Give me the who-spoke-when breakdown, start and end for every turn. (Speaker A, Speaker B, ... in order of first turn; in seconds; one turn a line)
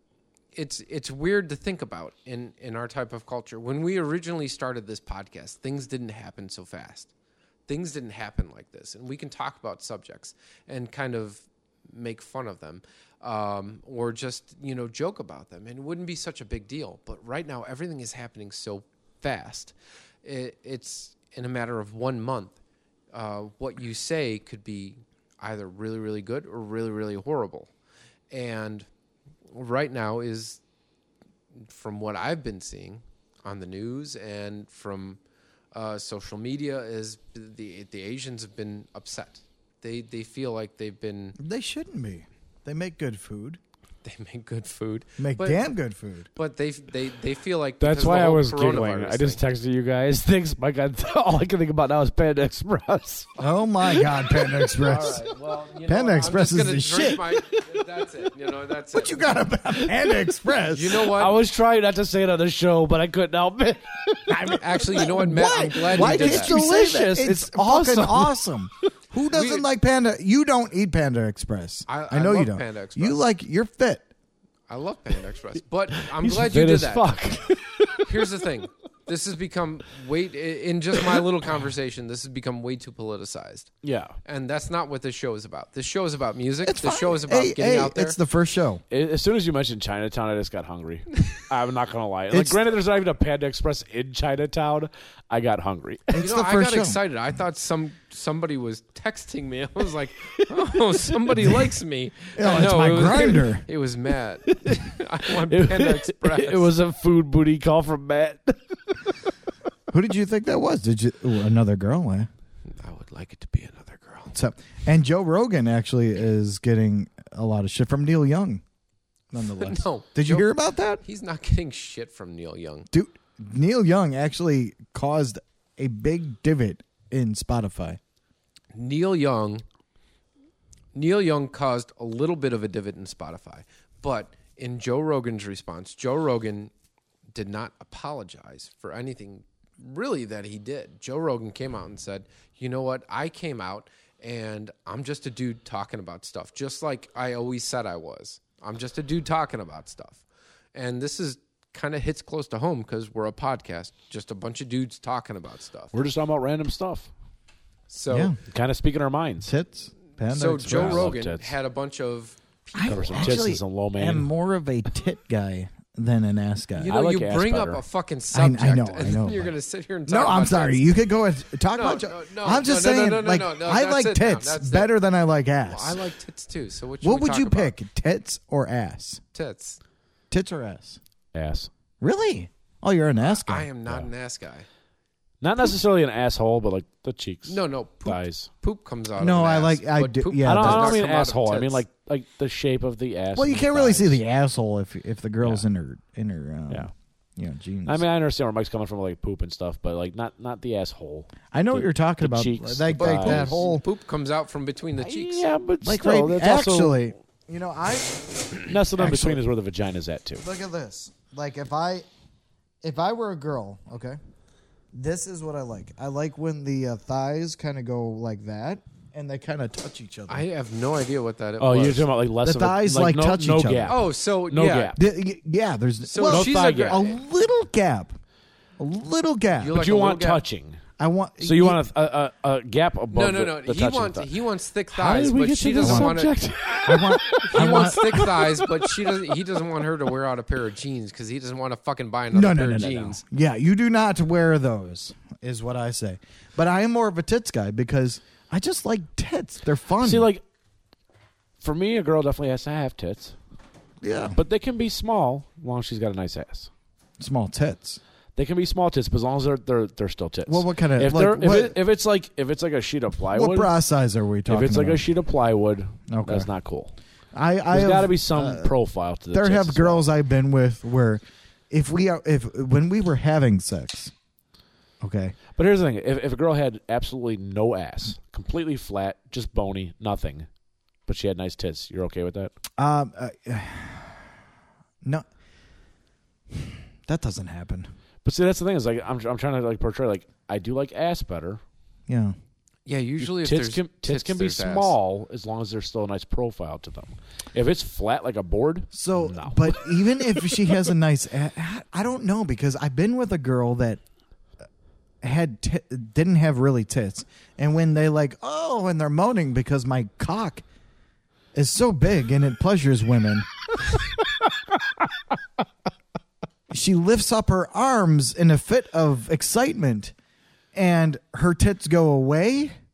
Speaker A: 0.5-7.1
Speaker A: 7.7-22.6
Speaker A: 23.1-27.7
Speaker A: 28.3-28.9
Speaker A: 29.5-30.6
Speaker A: 31.6-35.2
Speaker A: 35.7-41.4
Speaker B: 41.4-43.6
Speaker A: 44.0-45.7
Speaker B: 45.2-46.3
Speaker A: 46.4-49.4
Speaker C: 47.8-53.3
Speaker B: 53.4-55.3
Speaker A: 54.8-59.4
Speaker B: 55.9-57.6
Speaker B: 58.9-61.1
Speaker A: 60.7-61.4
Speaker C: 61.1-65.1
Speaker B: 64.3-74.1
Speaker A: 64.4-66.5
Speaker C: 65.8-68.4
Speaker A: 69.3-69.7
Speaker A: 71.9-73.2
Speaker A: 74.7-77.1
Speaker C: 76.0-78.2
Speaker A: 78.0-83.7
Speaker C: 83.8-84.2
Speaker A: 84.2-88.2
Speaker B: 86.6-88.8
Speaker C: 88.9-96.1
Speaker B: 92.3-92.6
Speaker B: 96.1-97.0
Speaker A: 96.2-106.7
Speaker B: 102.3-103.6
Speaker C: 104.5-108.6
Speaker B: 109.9-112.3
Speaker A: 112.7-114.3
Speaker B: 114.3-118.6
Speaker B: 119.3-121.0
Speaker A: 119.4-122.9
Speaker B: 122.9-128.0
Speaker A: 128.7-129.6
Speaker A: 130.9-136.7
Speaker A: 137.3-150.2
Speaker A: 150.7-155.9
Speaker C: 155.9-157.1
Speaker A: 157.9-158.3
Speaker B: 158.1-158.3
Speaker C: 158.4-159.5
Speaker B: 159.4-161.1
Speaker A: 160.3-163.4
Speaker C: 160.6-161.5
Speaker B: 162.8-166.9
Speaker C: 162.9-164.3
Speaker A: 166.7-170.9
Speaker C: 166.8-167.8
Speaker B: 168.3-169.5
Speaker B: 170.1-176.0
Speaker A: 171.7-174.9
Speaker A: 175.7-177.7
Speaker B: 177.0-179.2
Speaker A: 179.3-179.8
Speaker B: 180.3-181.0
Speaker C: 181.3-181.7
Speaker B: 182.0-183.7
Speaker A: 183.2-184.7
Speaker C: 185.4-188.5
Speaker A: 187.5-191.8
Speaker B: 189.2-191.0
Speaker C: 190.4-194.2
Speaker B: 193.3-198.0
Speaker C: 197.8-203.5
Speaker B: 201.5-203.8
Speaker A: 202.9-205.4
Speaker C: 205.0-207.1
Speaker B: 205.8-209.4
Speaker C: 208.7-210.4
Speaker B: 210.4-212.1
Speaker B: 212.8-214.2
Speaker B: 214.9-220.4
Speaker A: 220.3-222.1
Speaker C: 221.6-225.0
Speaker B: 222.4-223.9
Speaker A: 223.9-224.9
Speaker B: 224.9-228.1
Speaker A: 226.0-227.1
Speaker C: 226.3-227.0
Speaker B: 228.8-229.8
Speaker A: 229.6-230.4
Speaker C: 229.7-230.8
Speaker B: 231.0-231.8
Speaker C: 231.4-234.3
Speaker A: 233.1-236.3
Speaker C: 234.9-239.1
Speaker B: 235.8-236.2
Speaker B: 236.8-238.2
Speaker A: 237.4-243.2
Speaker B: 242.3-250.3
Speaker C: 250.0-250.4
Speaker C: 251.6-253.3
Speaker B: 254.0-254.4
Speaker C: 254.3-256.7
Speaker B: 257.2-258.0
Speaker C: 258.4-263.7
Speaker B: 260.5-261.8
Speaker B: 263.3-265.0
Speaker C: 264.5-266.9
Speaker B: 266.1-266.5
Speaker B: 267.3-268.7
Speaker C: 267.7-270.1
Speaker B: 269.3-274.1
Speaker B: 275.0-275.4
Speaker C: 275.6-280.5
Speaker C: 281.1-282.5
Speaker B: 282.8-284.2
Speaker B: 286.5-287.9
Speaker C: 288.2-291.6
Speaker B: 292.1-292.3
Speaker A: 292.9-294.9
Speaker C: 293.2-300.8
Speaker B: 298.9-304.0
Speaker B: 305.2-310.6
Speaker B: 311.5-313.5
Speaker B: 316.7-320.1
Speaker B: 320.7-322.7